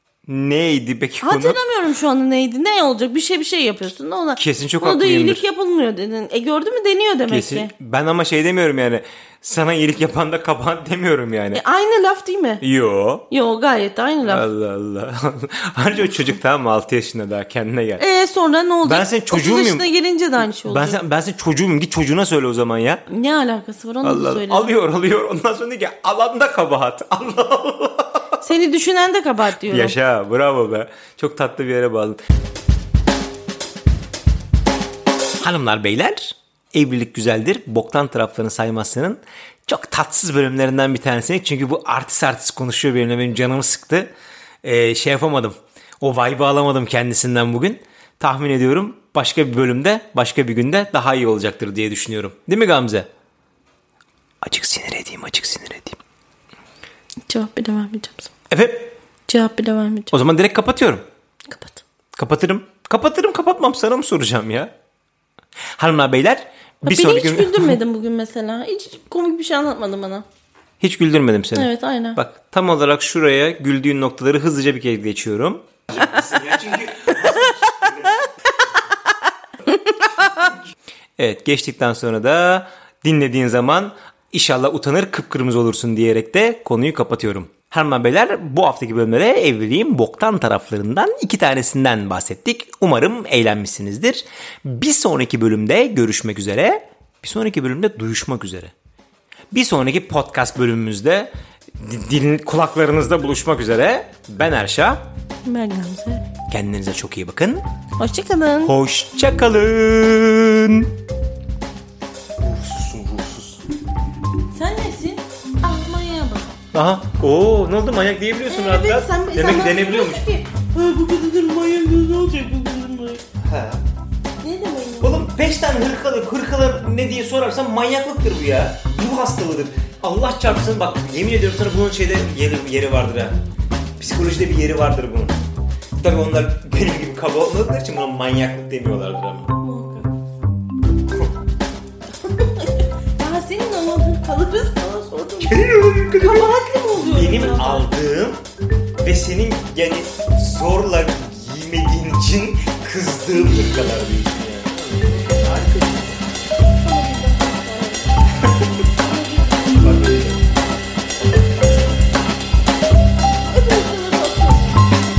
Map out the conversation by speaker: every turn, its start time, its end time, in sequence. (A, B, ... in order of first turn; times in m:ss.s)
0:00.3-0:01.6 A
0:01.2-0:07.7 B
0:04.4-0:05.4 A
0:07.3-0:11.6 A
0:11.5-0:12.6 B
0:12.6-0:13.3 A
0:13.3-0:14.5 B
0:14.2-0:18.0 A
0:18.0-0:21.0 B
0:18.8-0:19.9 A
0:20.6-0:23.0 A
0:23.1-0:24.7 B
0:24.0-0:28.4 A
0:28.4-0:30.0 B
0:29.7-0:32.2 A
0:35.4-0:44.1 A
0:44.6-0:53.1 A
0:54.4-0:56.0 A
0:57.3-0:58.3 B
0:58.5-0:58.9 A
0:59.3-1:00.1 B
1:00.1-1:01.0 A
1:01.5-1:01.8 B
1:02.2-1:04.7 A
1:05.8-1:07.8 A
1:06.8-1:10.2 B
1:10.8-1:18.7 A
1:11.6-1:12.2 B
1:20.0-1:20.4 B
1:21.2-1:38.7 A
1:39.5-1:45.0 A
1:45.5-1:46.3 B
1:46.5-1:47.6 A
1:48.0-1:48.7 B
1:48.6-1:50.9 A
1:52.4-1:53.6 A
1:54.5-1:56.6 B
1:56.7-2:00.2 A
1:58.5-2:03.2 B
2:03.4-2:03.8 A
2:04.4-2:05.2 B
2:05.0-2:13.4 A
2:14.0-2:15.4 A
2:16.0-2:19.5 A
2:19.6-2:20.1 B
2:22.2-2:25.6 B
2:25.4-2:28.4 A
2:26.2-2:27.9 B
2:29.0-2:36.2 A
2:36.8-2:38.2 B
2:38.9-2:40.1 B
2:39.8-2:40.4 A
2:43.4-2:44.9 B